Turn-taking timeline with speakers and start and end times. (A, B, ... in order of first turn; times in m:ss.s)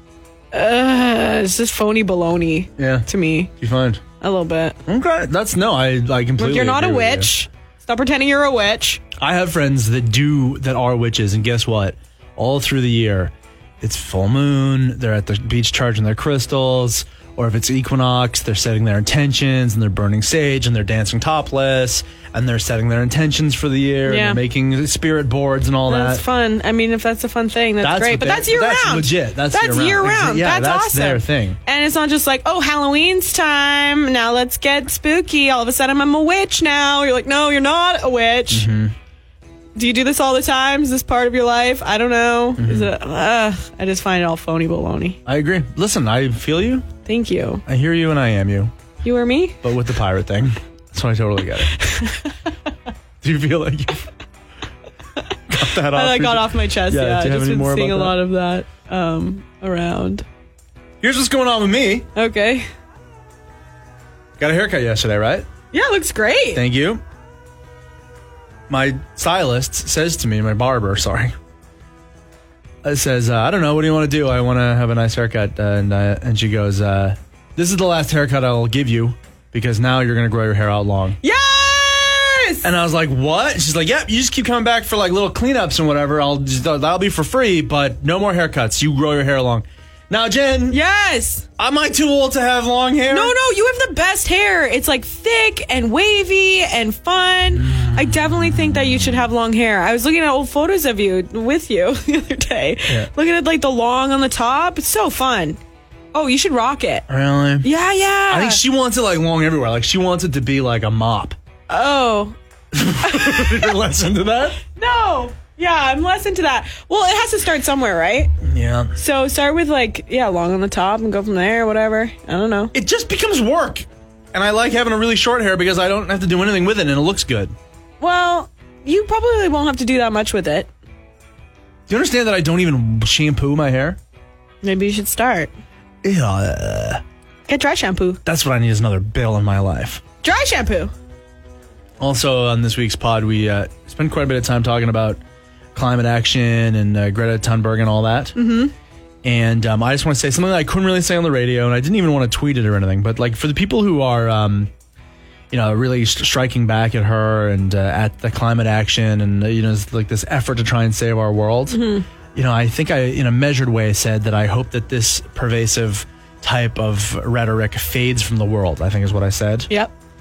0:00.5-0:03.5 A
0:02.8-0:04.0 B
0:04.2-0:04.8 A
0:04.8-0:07.3 B
0:06.4-0:09.0 A
0:09.2-0:26.2 B
0:24.0-0:24.4 A
0:25.9-0:38.7 A
0:27.8-0:31.6 B
0:38.5-0:38.9 B
0:39.8-0:45.2 A
0:42.6-0:42.9 B
0:45.2-0:46.9 B
0:47.0-0:47.6 A
0:47.6-0:48.7 B
0:49.0-0:49.6 A
0:49.6-0:51.7 B
0:51.8-0:52.3 A
0:53.2-0:54.1 B
0:55.5-0:58.2 B
0:55.9-1:00.2 A
1:01.0-1:02.1 B
1:02.1-1:02.7 A
1:04.4-1:05.5 B
1:05.7-1:06.6 A
1:06.5-1:07.0 B
1:08.7-1:11.3 B
1:12.8-1:21.2 B
1:21.2-1:22.6 A
1:22.6-1:30.8 B
1:30.7-1:31.4 A
1:31.6-1:33.3 B
1:33.1-1:45.6 A
1:37.5-1:39.2 B
1:46.1-1:47.1 A
1:47.1-1:47.7 B
1:47.6-1:48.6 A
1:48.3-1:51.4 B
1:51.7-1:52.4 A
1:52.7-1:54.6 B
1:53.0-1:53.7 A
1:54.7-1:58.3 A
1:58.4-1:58.9 B
1:59.0-2:02.7 A
2:02.7-2:07.5 B
2:08.0-2:10.7 A
2:11.9-2:14.0 B
2:14.6-2:15.5 A
2:16.0-2:17.0 B
2:17.5-2:18.2 A
2:18.2-2:20.0 B
2:20.2-2:20.9 A
2:22.0-2:25.2 B
2:25.7-2:28.4 B
2:28.3-2:28.7 A
2:29.2-2:34.7 B
2:35.5-2:41.8 B
2:41.7-2:42.0 A
2:42.3-2:49.7 B